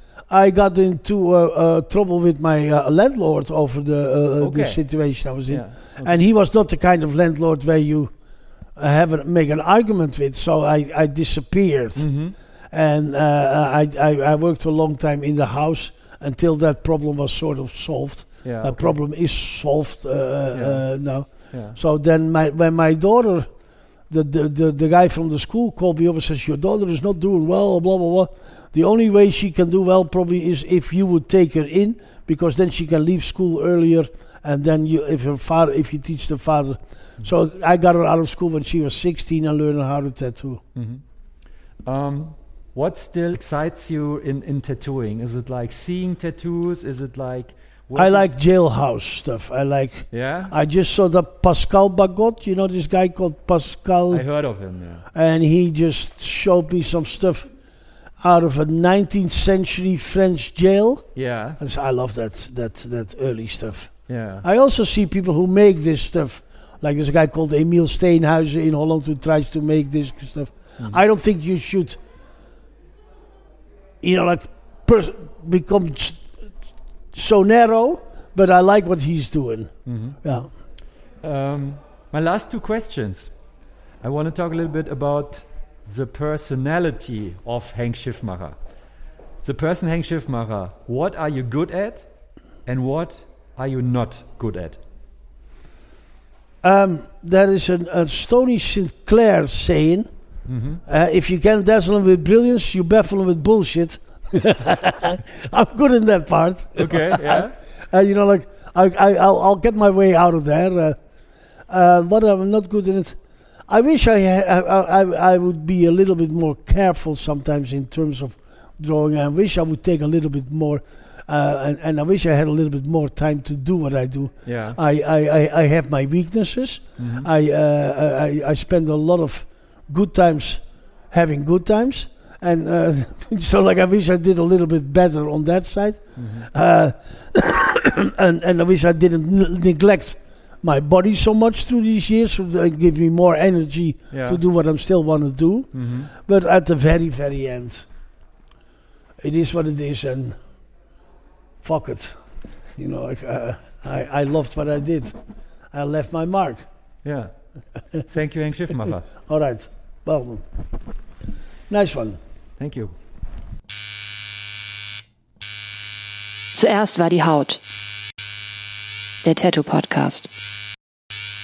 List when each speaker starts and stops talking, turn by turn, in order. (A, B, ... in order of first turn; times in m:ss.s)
0:00.3-0:08.1 A
0:04.4-0:04.8 B
0:05.5-0:06.2 B
0:08.8-0:12.1 A
0:12.0-0:12.4 B
0:12.7-0:23.5 A
0:18.4-0:19.0 B
0:20.5-0:20.8 B
0:21.5-0:21.8 B
0:24.1-0:40.6 A
0:40.8-0:41.0 B
0:41.8-0:48.3 B
0:48.0-0:54.2 A
0:50.1-0:50.5 B
0:54.1-0:55.0 B
0:55.1-0:57.5 A
0:58.2-1:01.1 A
1:01.2-1:01.6 B
1:01.6-1:12.0 A
1:04.1-1:04.4 B
1:14.0-1:16.3 A
1:17.1-1:19.7 A
1:19.9-1:20.2 B
1:20.2-1:20.5 A
1:21.2-1:23.3 B
1:24.0-1:28.6 B
1:29.4-1:32.1 B
1:32.7-1:34.8 B
1:36.6-1:40.1 A
1:40.5-1:40.8 B
1:40.9-1:51.0 A
1:46.8-1:47.6 B
1:51.7-1:53.2 A
1:53.7-2:27.8 A
2:04.5-2:04.8 B
2:07.0-2:07.3 B
2:16.2-2:16.5 B
2:24.1-2:24.4 B
2:25.7-2:26.1 B
2:29.2-2:30.4 A
2:31.6-2:32.2 A
2:32.8-2:35.2 A
2:35.7-2:36.6 A
2:37.0-2:37.3 B
2:38.0-2:39.1 B
2:39.3-2:40.4 A
2:41.7-2:42.2 A
2:42.6-2:42.9 B
2:46.5-2:47.6 C
2:49.2-2:50.3 C